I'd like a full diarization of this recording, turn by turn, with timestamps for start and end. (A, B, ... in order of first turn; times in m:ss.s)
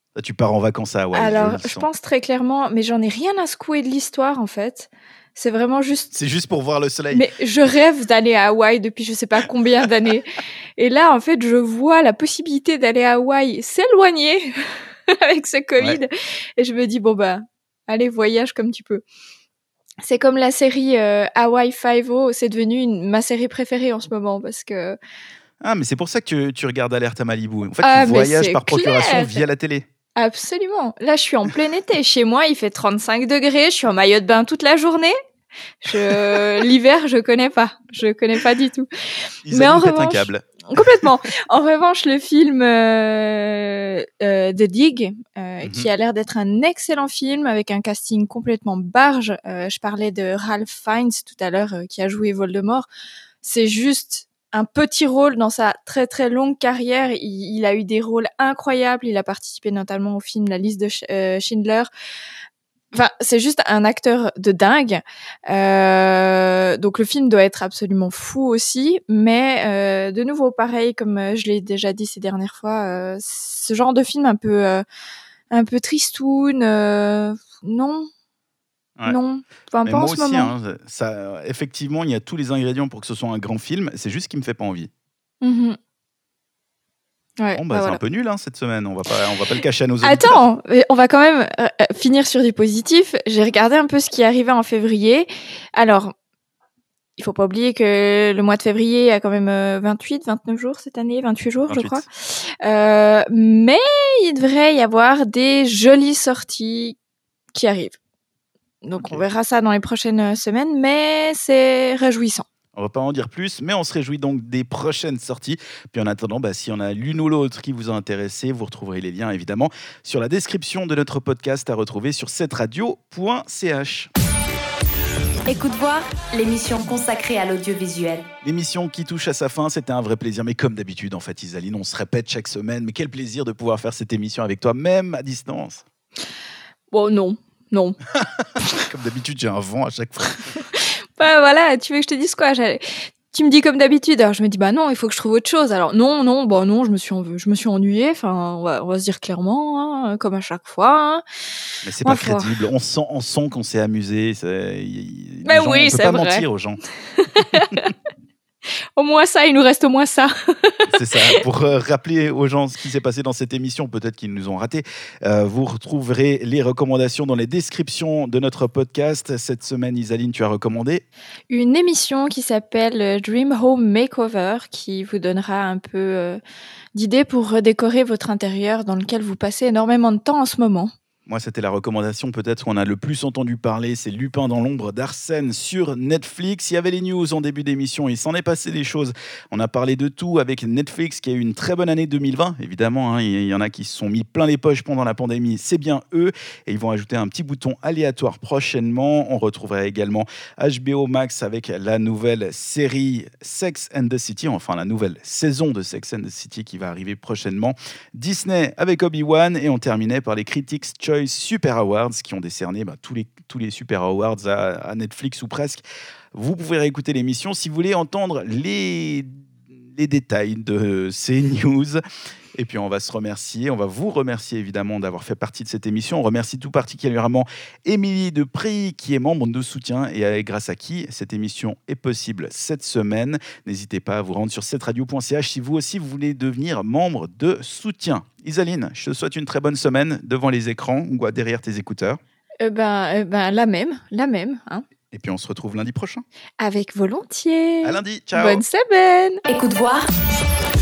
0:00.2-0:01.9 A
0:01.1-0:06.1 B
0:06.1-0:07.3 A
0:07.1-0:19.0 B
0:20.0-0:25.0 B
0:25.6-0:29.9 A
0:27.8-0:29.4 B
0:30.2-0:35.2 B
0:35.8-0:38.9 B
0:39.5-0:40.4 A
0:39.5-0:52.9 B
0:45.6-0:45.9 A
0:53.4-1:01.9 B
1:02.9-1:14.8 B
1:15.5-1:18.1 B
1:19.1-1:20.5 B
1:19.9-1:24.9 A
1:25.4-1:25.8 B
1:27.4-1:28.0 B
1:27.6-1:30.4 A
1:30.0-1:36.1 B
1:37.2-1:42.1 B
1:41.7-1:42.0 A
1:42.6-1:47.0 B
1:47.5-1:48.0 B
1:48.8-1:52.5 B
1:49.0-1:49.3 A
1:52.7-2:04.1 A
2:05.5-2:08.3 C
2:08.4-2:15.8 A
2:16.9-2:18.0 B
2:18.2-2:20.4 A
2:20.7-2:31.2 B
2:31.8-2:36.8 A
2:32.0-2:32.5 B
2:35.4-2:36.4 B
2:37.2-2:37.9 B
2:39.0-2:40.9 B
2:40.9-2:51.0 A
2:51.5-2:56.4 B
2:57.0-3:00.9 B
3:01.3-3:35.8 A
3:36.3-3:42.0 A
3:42.6-4:02.2 A
4:02.6-4:04.9 B
4:05.1-4:06.2 A
4:06.6-4:09.4 B
4:07.8-4:08.6 A
4:09.5-4:10.1 C